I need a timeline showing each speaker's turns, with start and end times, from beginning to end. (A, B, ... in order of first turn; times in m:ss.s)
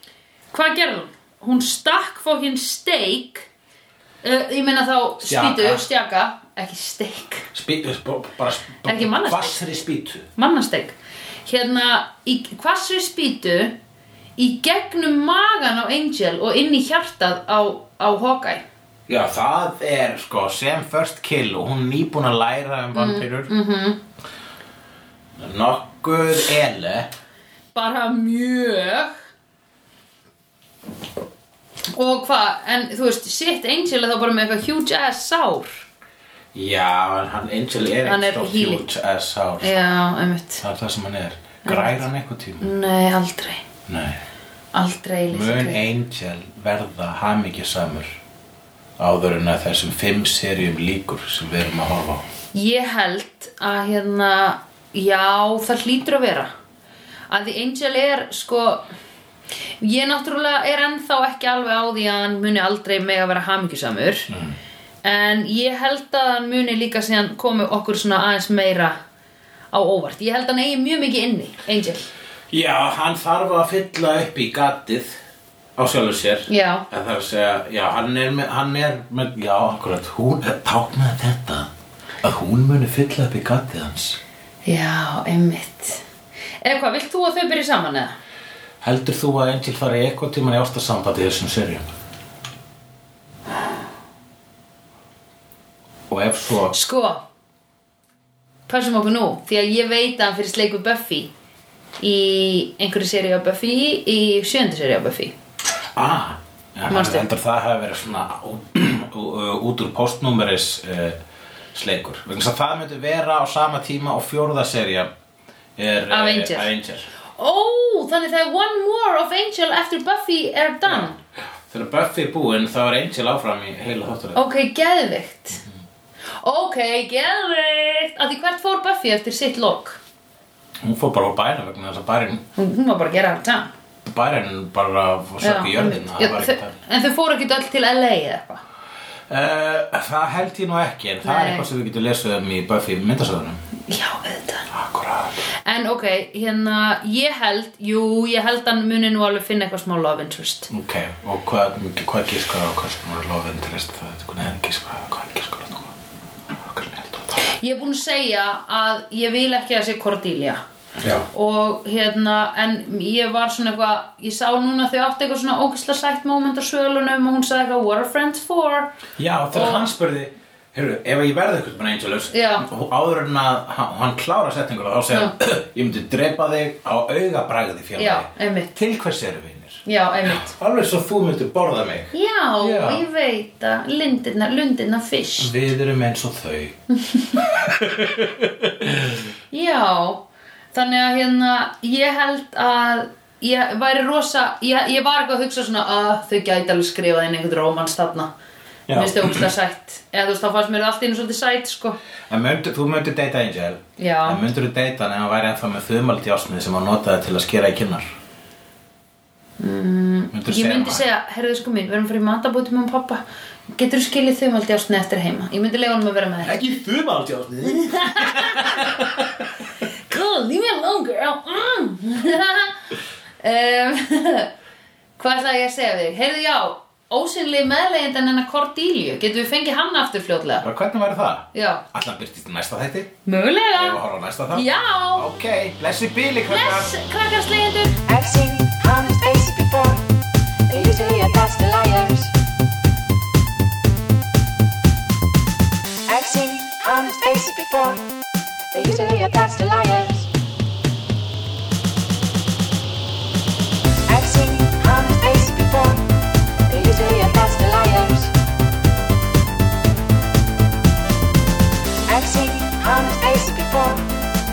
0:00.5-0:03.5 A
0:04.2-0:07.4 A
0:05.2-0:05.8 B
0:07.5-0:10.3 B
0:08.8-0:09.6 A
0:10.4-0:10.9 A
0:11.4-0:13.8 A
0:14.4-0:18.6 A
0:19.1-0:23.5 B
0:22.9-0:24.0 A
0:25.4-0:27.1 B
0:27.7-0:29.2 A
0:31.9-0:35.8 A
0:36.5-0:39.7 B
0:38.0-0:38.8 A
0:39.6-0:40.6 A
0:40.6-0:42.7 B
0:41.6-0:42.0 A
0:42.6-0:43.6 A
0:43.9-0:44.2 B
0:44.7-0:45.8 A
0:45.3-0:48.2 B
0:49.0-0:52.2 B
0:52.5-0:56.5 A
0:57.3-0:58.8 A
0:59.8-1:04.3 A
1:04.3-1:04.6 B
1:05.0-1:09.0 A
1:09.7-1:12.1 A
1:12.5-1:15.2 B
1:15.8-1:21.7 B
1:16.5-1:16.8 A
1:22.2-1:24.2 B
1:24.6-1:26.0 A
1:26.6-1:28.1 A
1:28.8-1:31.9 B
1:36.1-1:36.7 B
1:36.7-1:37.2 A
1:38.7-1:41.3 A
1:42.0-1:45.3 A
1:46.0-1:51.2 B
1:46.9-1:47.3 A
1:51.7-1:55.1 B
1:55.8-1:57.1 B
1:56.1-1:56.7 A
1:57.4-2:01.2 A
2:00.8-2:01.1 B
2:01.7-2:04.4 B
2:04.3-2:05.6 A
2:06.4-2:10.0 A
2:10.8-2:12.4 B
2:12.6-2:13.7 A
2:14.0-2:16.8 B
2:15.4-2:18.6 A
2:19.3-2:23.6 B
2:21.2-2:21.6 A
2:23.9-2:24.7 A
2:24.7-2:25.4 B
2:25.6-2:30.7 A
2:30.7-2:35.9 B
2:36.5-2:37.5 B
2:37.4-2:40.6 A
2:41.0-2:41.3 B
2:41.3-2:48.9 A
2:49.2-3:03.0 B
2:49.5-2:49.9 A
2:52.3-2:52.6 A
2:58.0-2:58.8 A
2:59.8-3:00.5 A
3:02.1-3:05.5 A
3:05.4-3:06.8 B
3:07.4-3:09.3 B
3:09.5-3:18.3 A
3:18.9-3:19.5 B
3:18.9-3:22.0 A
3:22.3-3:28.1 B
3:24.0-3:24.4 A
3:29.6-3:33.2 A
3:30.3-3:31.0 B
3:33.8-3:36.6 A
3:36.4-3:39.4 B
3:37.8-3:38.8 A
3:40.1-3:42.8 A
3:43.4-3:44.5 A
3:45.2-3:50.6 A
3:50.6-3:53.1 B
3:51.5-3:51.8 A
3:53.2-3:54.0 A
3:53.7-3:56.9 B
3:54.5-3:55.3 A
3:56.5-3:58.0 A
3:58.0-4:00.0 C
4:00.7-4:02.3 C
4:06.1-4:08.0 C
4:08.7-4:10.3 C
4:14.1-4:16.0 C
4:16.7-4:18.3 C
4:22.1-4:24.0 C